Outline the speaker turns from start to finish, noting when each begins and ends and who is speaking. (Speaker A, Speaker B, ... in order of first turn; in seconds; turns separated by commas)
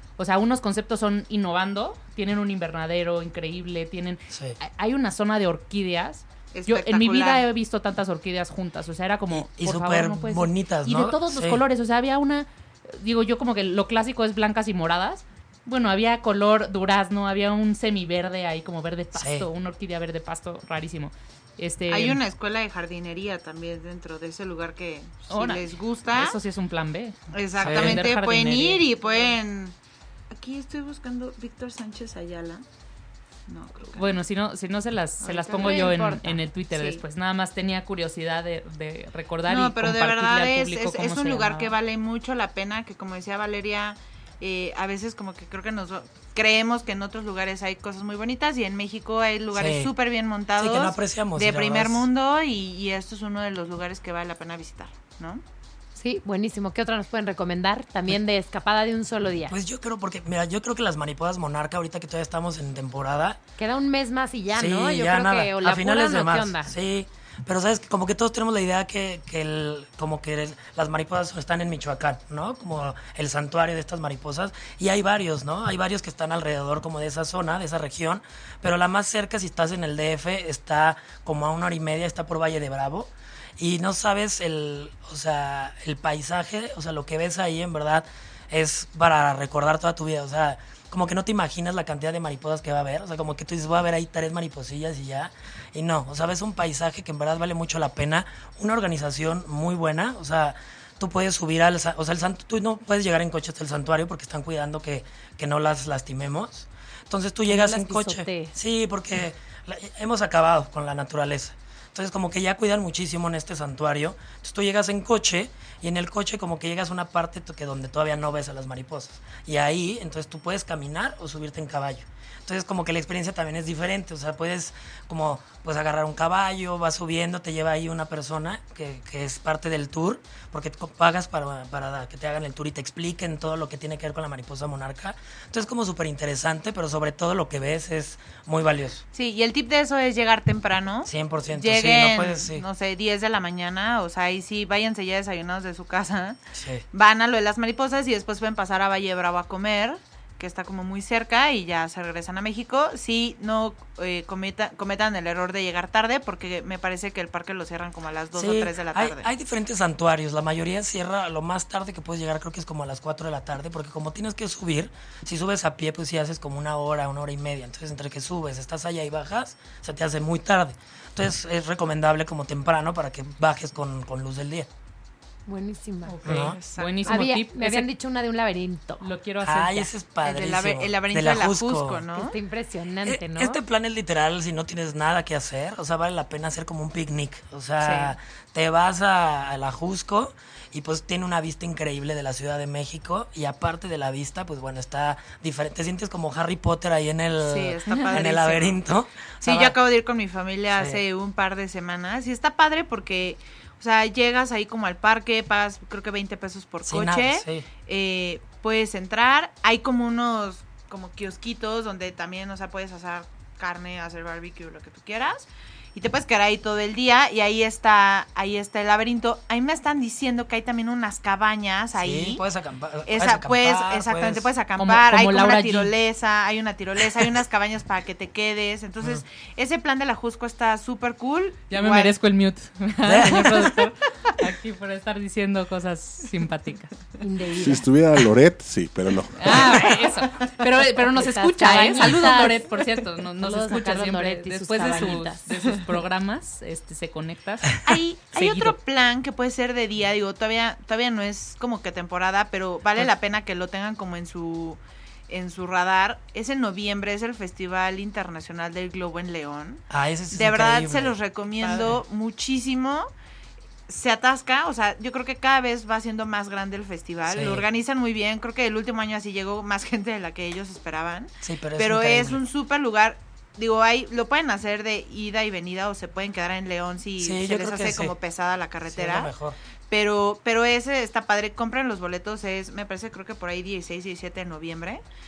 Speaker A: 0.2-22.2, Speaker B: 4.3-4.6, Speaker C: 6.5-7.4, Speaker B: 9.3-11.6, Speaker B: 19.2-19.5, Speaker C: 21.9-26.4, Speaker A: 25.3-28.9, Speaker C: 27.3-29.7, Speaker B: 27.6-28.0, Speaker C: 30.3-32.6, Speaker C: 33.5-34.2, Speaker A: 34.0-41.7, Speaker D: 35.2-36.4, Speaker C: 35.4-36.0, Speaker C: 39.5-55.4, Speaker B: 49.5-49.9, Speaker B: 50.6-52.1, Speaker D: 56.0-59.5, Speaker B: 59.5-63.4, Speaker D: 63.6-66.7, Speaker B: 64.5-139.0, Speaker D: 107.5-108.5, Speaker C: 139.1-146.4, Speaker B: 141.1-142.7, Speaker B: 146.5-146.8, Speaker C: 146.9-159.3, Speaker B: 158.4-174.7, Speaker D: 175.5-176.2, Speaker A: 176.1-177.9, Speaker B: 176.2-176.6, Speaker C: 176.3-177.3, Speaker D: 177.1-179.1, Speaker A: 179.0-179.9, Speaker B: 179.4-182.0, Speaker C: 180.2-182.4, Speaker D: 182.2-183.6, Speaker B: 183.0-199.8, Speaker A: 187.8-188.1, Speaker C: 197.4-198.8, Speaker C: 199.4-222.4, Speaker B: 200.7-201.0, Speaker B: 206.8-207.7, Speaker B: 221.9-224.5, Speaker C: 223.1-232.2, Speaker A: 224.8-225.9, Speaker A: 231.7-236.9, Speaker B: 233.0-233.7, Speaker D: 237.2-237.9, Speaker E: 237.6-240.0, Speaker A: 239.4-247.8, Speaker D: 241.1-242.8, Speaker D: 243.4-245.5, Speaker C: 247.8-263.1, Speaker A: 248.3-248.8, Speaker B: 259.9-261.2, Speaker C: 263.9-279.3, Speaker B: 267.3-267.7, Speaker B: 271.4-272.4, Speaker B: 277.2-278.1, Speaker B: 278.9-279.6, Speaker C: 279.9-285.0